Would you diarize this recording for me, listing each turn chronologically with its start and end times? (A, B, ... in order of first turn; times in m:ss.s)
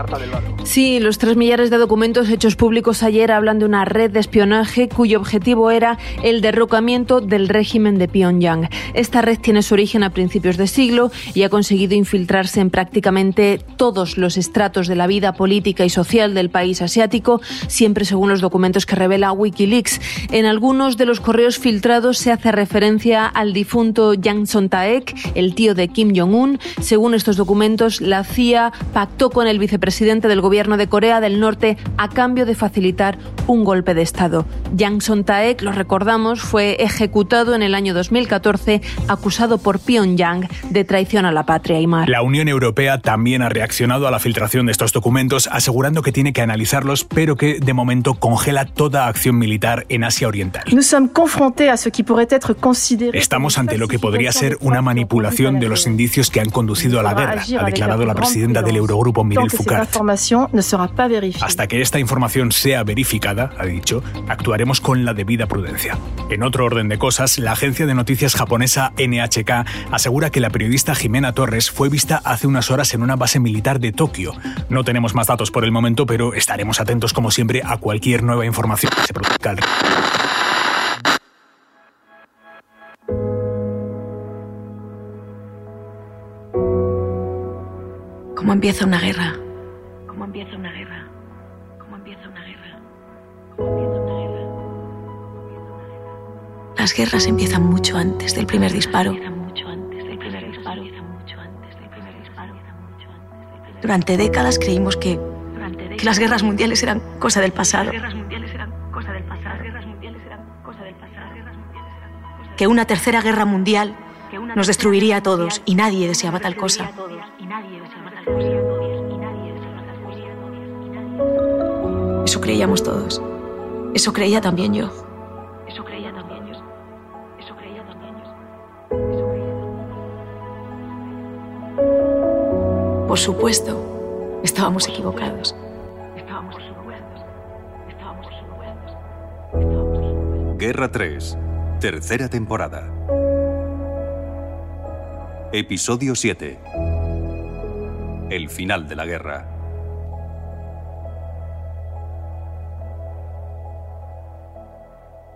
0:00.6-0:42.1 A
0:42.1-0:50.7 B
0:50.7-0:56.0 C
0:53.1-1:00.0 B
0:56.8-1:01.6 C
1:01.4-1:19.7 B
1:28.3-1:29.4 D
1:30.1-1:31.1 D
1:31.8-1:32.8 D
1:33.7-1:34.3 D
1:36.8-1:42.7 D
1:43.8-1:51.6 D
1:52.6-2:00.4 D
2:02.2-2:03.2 D
2:03.9-2:05.0 D
2:05.7-2:06.6 D
2:07.4-2:08.3 D
2:13.1-2:13.9 D
2:14.4-2:15.6 D
2:16.1-2:17.1 D
2:17.9-2:18.6 D
2:20.5-2:22.9 E
2:25.5-2:26.6 E
2:28.3-2:29.5 E